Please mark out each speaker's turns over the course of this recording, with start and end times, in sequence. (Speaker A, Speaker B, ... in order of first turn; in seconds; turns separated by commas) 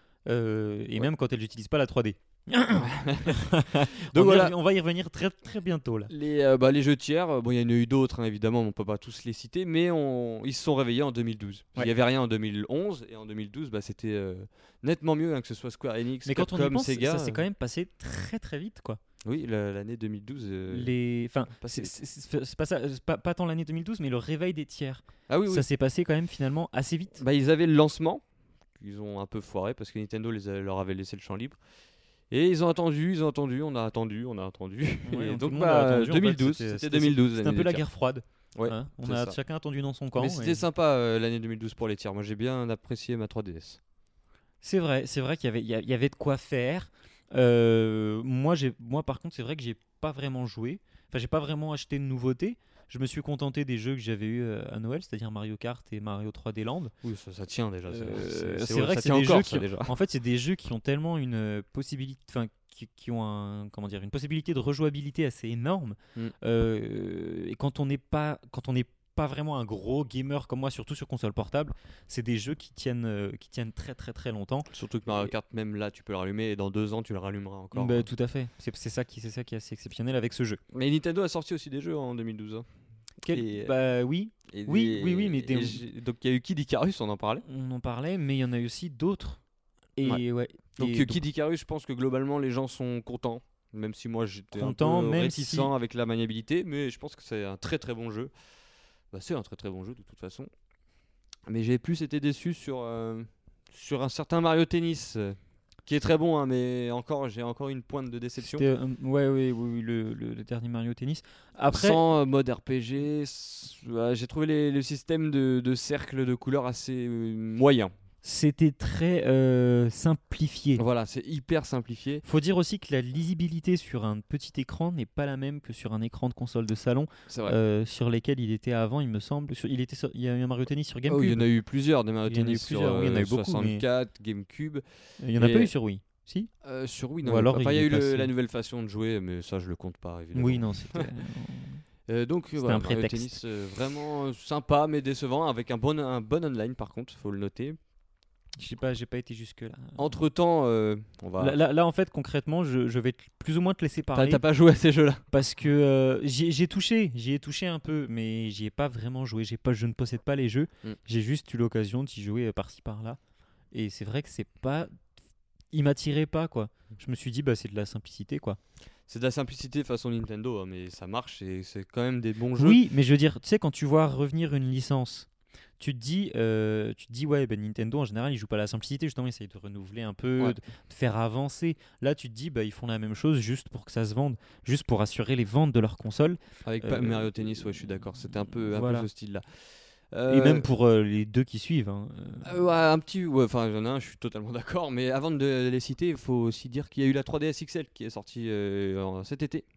Speaker A: 0.3-6.1, Speaker B: 2.8-4.5, Speaker B: 6.1-17.4, Speaker A: 16.2-19.0, Speaker B: 19.2-20.9, Speaker A: 20.7-27.2, Speaker B: 21.6-21.9, Speaker B: 25.3-25.7, Speaker B: 27.2-28.2, Speaker B: 28.8-31.6, Speaker B: 32.3-37.8, Speaker A: 35.0-40.6, Speaker B: 38.6-39.4, Speaker B: 40.1-43.8, Speaker A: 44.6-56.9, Speaker B: 57.0-59.9, Speaker A: 57.9-75.3, Speaker B: 74.7-78.1, Speaker A: 77.7-80.6, Speaker B: 80.7-82.7, Speaker B: 83.2-83.7, Speaker A: 83.2-85.8, Speaker B: 84.5-87.4, Speaker A: 87.4-89.4, Speaker A: 90.0-91.2, Speaker B: 90.8-98.3, Speaker A: 94.5-95.7, Speaker B: 99.1-100.5, Speaker B: 101.5-108.7, Speaker A: 108.4-112.0, Speaker B: 111.7-117.9, Speaker A: 118.2-120.8, Speaker B: 120.8-122.2, Speaker A: 122.2-131.5, Speaker B: 127.3-127.6, Speaker B: 131.1-134.8, Speaker A: 132.3-133.8, Speaker A: 135.2-136.5, Speaker B: 135.4-135.7, Speaker B: 136.6-141.1, Speaker A: 137.2-138.3, Speaker A: 140.3-141.8, Speaker B: 142.1-147.8, Speaker A: 142.6-143.4, Speaker A: 148.6-150.2, Speaker B: 150.0-151.6, Speaker A: 151.4-154.4, Speaker B: 154.2-155.2, Speaker A: 155.3-163.2, Speaker A: 163.7-164.9, Speaker A: 165.7-168.6, Speaker B: 169.1-172.8, Speaker A: 172.6-175.3, Speaker A: 175.8-187.3, Speaker B: 186.7-190.7, Speaker A: 188.7-189.1, Speaker A: 190.3-192.6, Speaker B: 192.4-199.7